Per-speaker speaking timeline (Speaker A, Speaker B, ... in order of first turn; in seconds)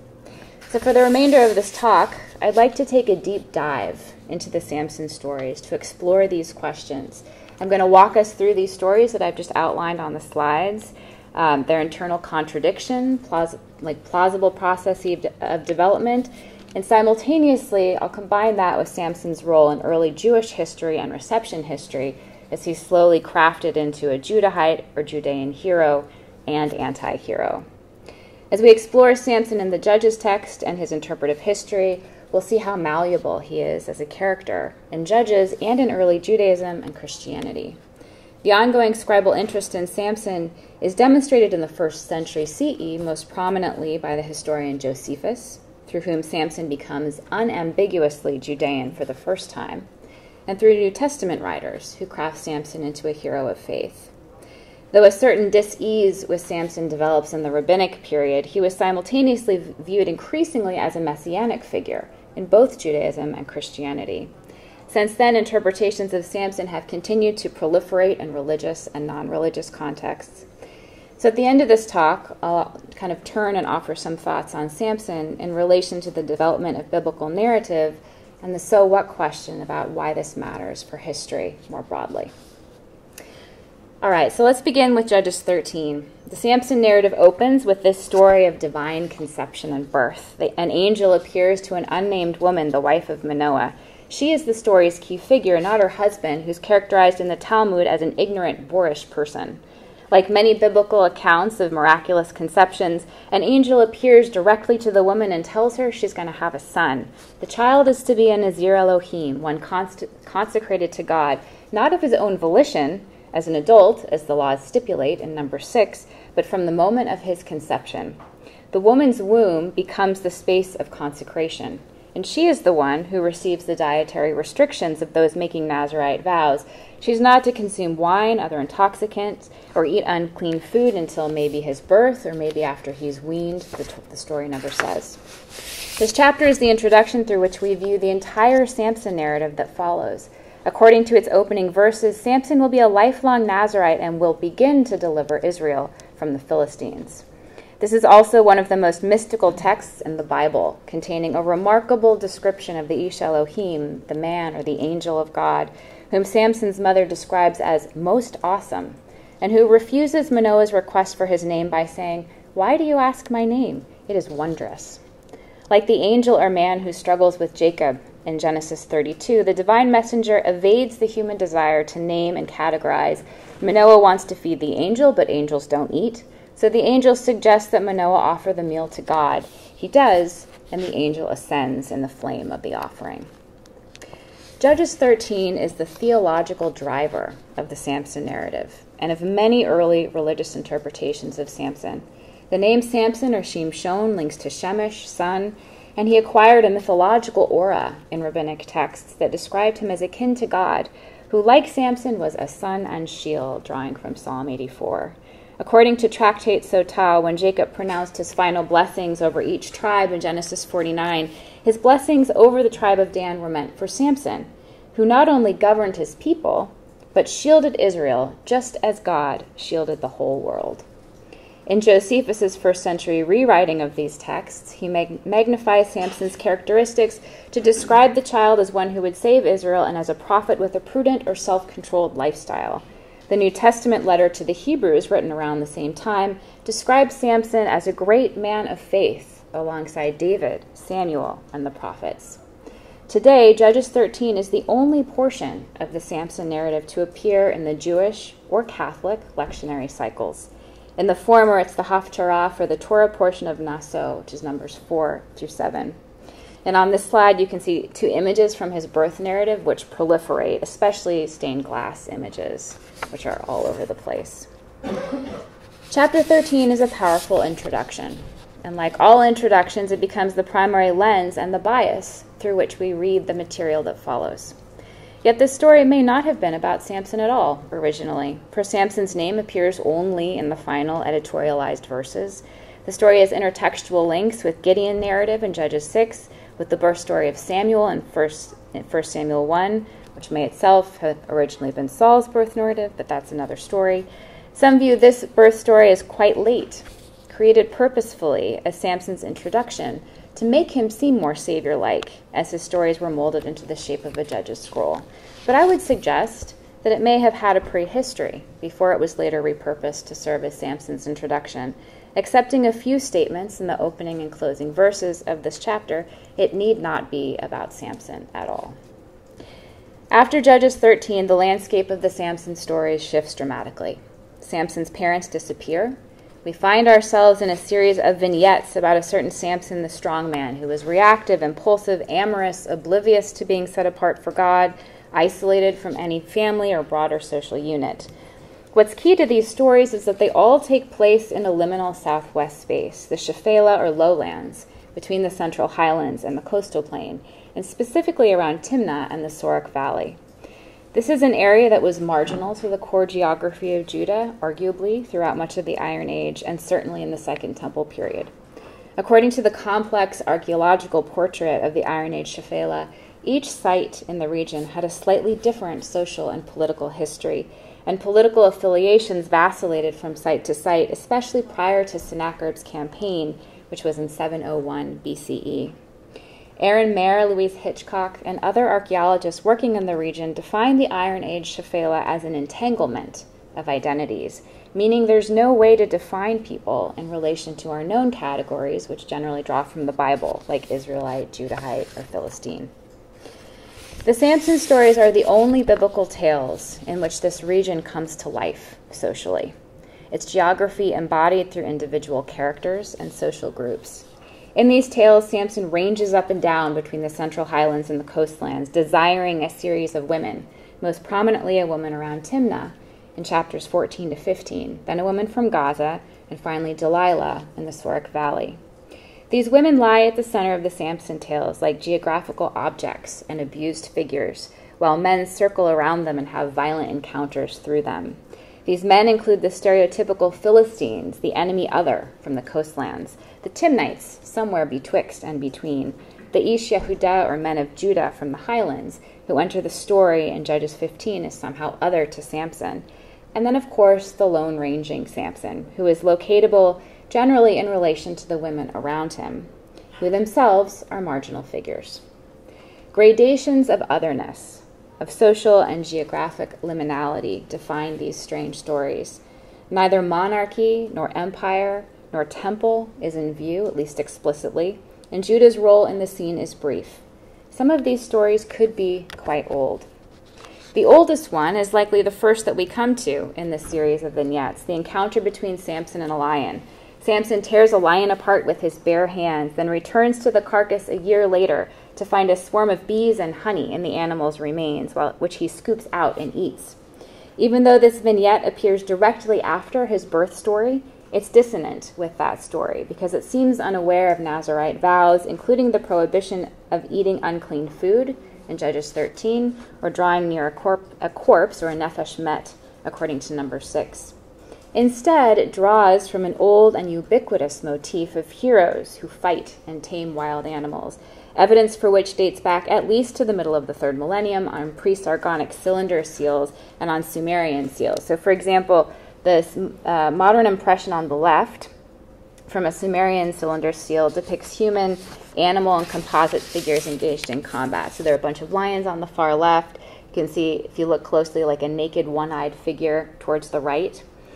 Speaker A: 0.7-27.6, 28.5-37.8, 38.4-49.9, 50.5-54.1, 54.9-64.3, 64.9-70.5, 71.2-82.3, 84.0-99.6, 100.1-118.2, 118.7-135.2, 136.0-147.2, 147.8-165.0, 165.7-183.3, 184.6-220.8, 221.7-242.4, 243.1-256.0, 256.6-264.5, 265.9-274.6, 275.2-318.8, 320.1-338.1, 338.7-350.2, 350.9-358.3, 359.0-375.8, 376.6-392.7, 394.1-399.5, 400.1-418.6, 419.3-449.5, 450.0-452.0, 452.9-469.9, 470.7-486.8, 487.4-504.1, 504.7-521.7, 522.5-534.0